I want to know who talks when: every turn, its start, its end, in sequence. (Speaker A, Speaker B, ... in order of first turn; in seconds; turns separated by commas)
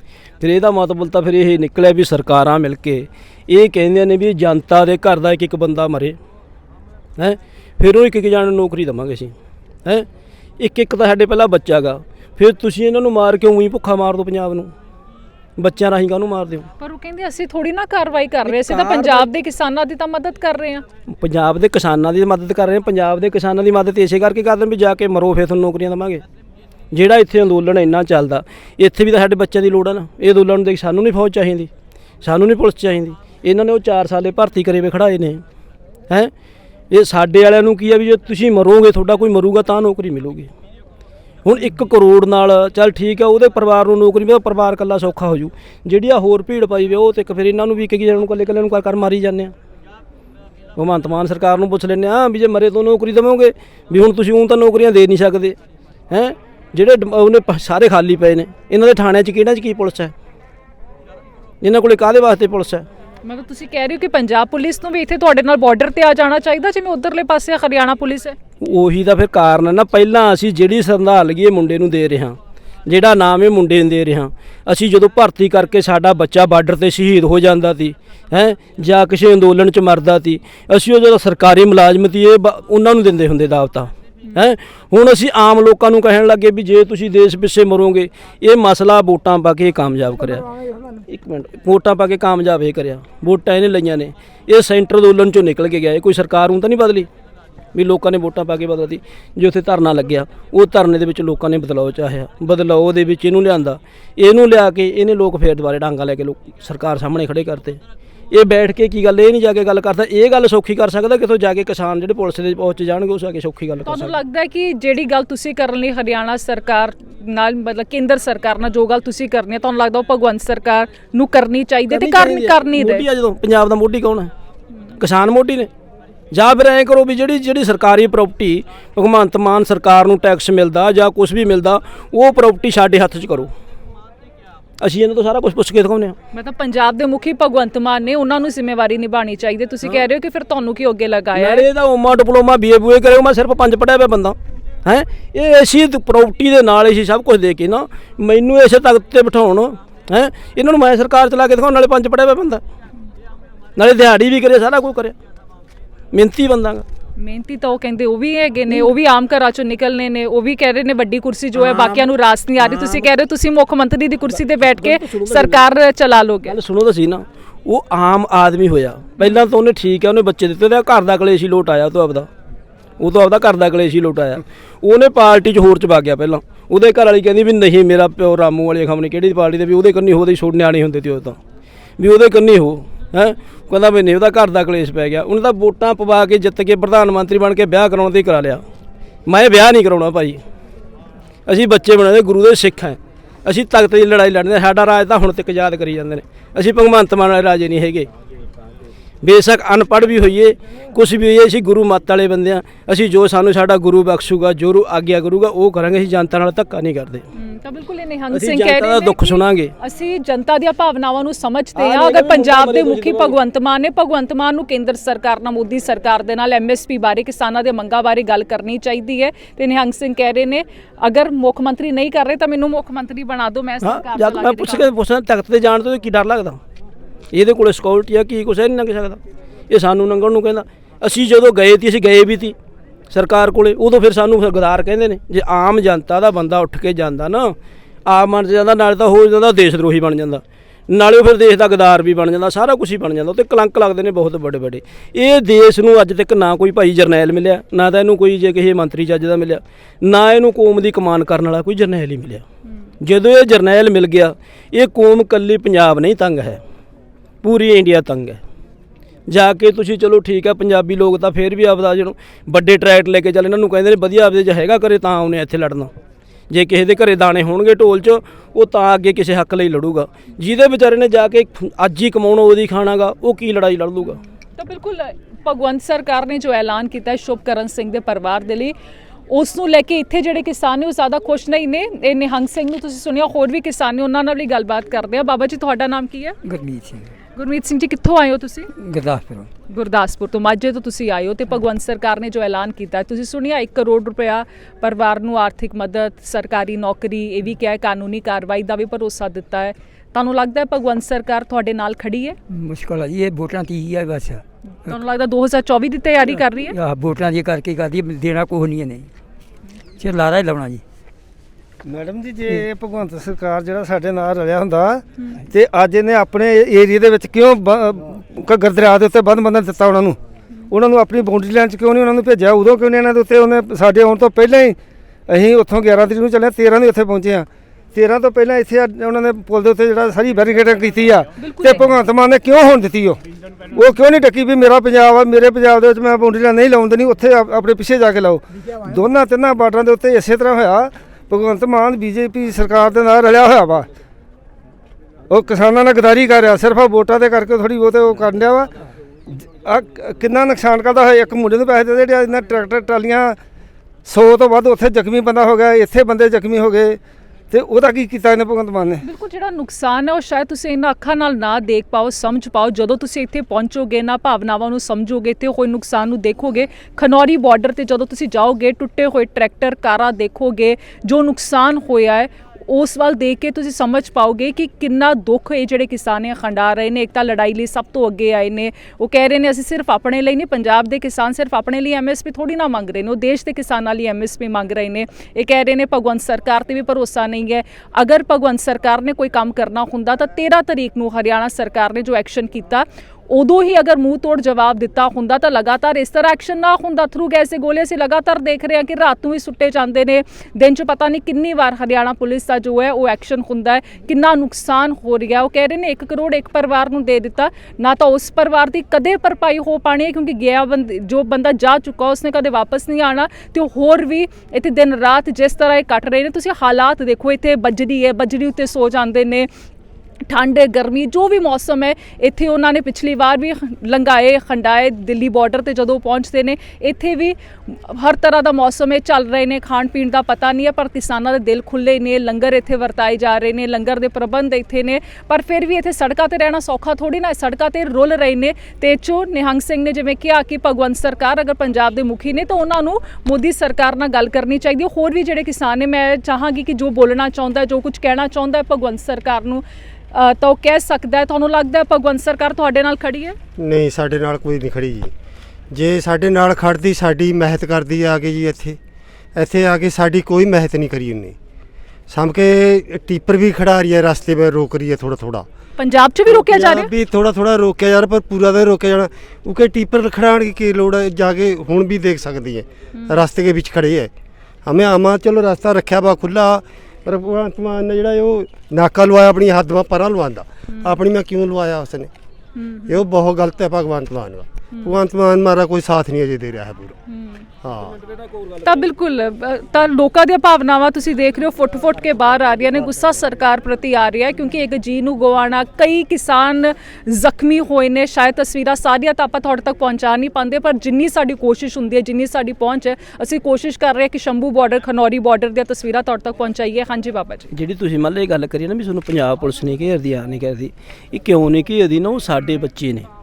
Speaker A: 0.4-6.2, Speaker A: 7.2-9.3, Speaker A: 10.6-14.7, Speaker A: 15.6-16.7, Speaker B: 16.8-20.8, Speaker A: 18.4-19.3, Speaker A: 21.1-26.2, Speaker A: 26.9-31.7, Speaker A: 32.2-35.4, Speaker A: 36.9-40.5, Speaker A: 41.4-49.5, Speaker A: 50.8-55.6, Speaker A: 56.1-60.1, Speaker A: 61.6-62.9, Speaker B: 63.2-68.3, Speaker A: 68.6-97.1, Speaker A: 97.7-114.1, Speaker B: 113.8-123.1, Speaker A: 121.9-124.3, Speaker A: 125.0-125.7, Speaker A: 126.3-133.5, Speaker A: 134.8-136.1, Speaker B: 136.3-141.7, Speaker A: 141.3-152.6, Speaker A: 153.8-155.1, Speaker A: 156.1-156.8, Speaker B: 157.2-166.6, Speaker A: 161.6-163.1, Speaker A: 164.4-165.6, Speaker A: 166.5-172.3, Speaker A: 173.0-181.4, Speaker A: 182.0-188.6, Speaker A: 189.3-190.4, Speaker A: 191.5-198.1, Speaker A: 199.2-207.2, Speaker B: 207.3-224.9, Speaker A: 208.3-209.7, Speaker A: 211.8-213.3, Speaker A: 223.8-226.6, Speaker A: 227.3-232.6, Speaker A: 233.1-252.4, Speaker A: 253.0-256.6, Speaker A: 257.4-258.4, Speaker A: 259.3-265.9, Speaker A: 266.5-274.2, Speaker B: 274.1-278.8, Speaker B: 279.3-286.4, Speaker C: 286.4-287.1, Speaker B: 287.4-288.7, Speaker C: 288.8-289.5, Speaker B: 289.7-302.4, Speaker C: 302.5-304.9, Speaker B: 304.8-306.8, Speaker C: 306.6-309.1, Speaker C: 310.0-310.8, Speaker D: 311.8-320.2, Speaker D: 320.7-324.8, Speaker D: 325.3-333.2, Speaker B: 331.4-331.9, Speaker D: 333.7-343.9, Speaker D: 345.3-348.7, Speaker D: 349.3-353.4, Speaker D: 354.1-357.0, Speaker D: 357.5-359.0, Speaker B: 359.0-419.5, Speaker B: 420.3-453.4, Speaker E: 453.6-455.1, Speaker E: 455.7-458.8, Speaker E: 459.4-461.4, Speaker E: 462.1-465.5, Speaker B: 465.8-466.9, Speaker E: 466.3-474.1, Speaker B: 472.9-473.2, Speaker E: 474.6-482.1, Speaker B: 482.5-483.0, Speaker E: 482.9-486.9, Speaker B: 487.1-487.4, Speaker E: 487.6-488.0, Speaker B: 488.6-507.5, Speaker A: 507.5-513.1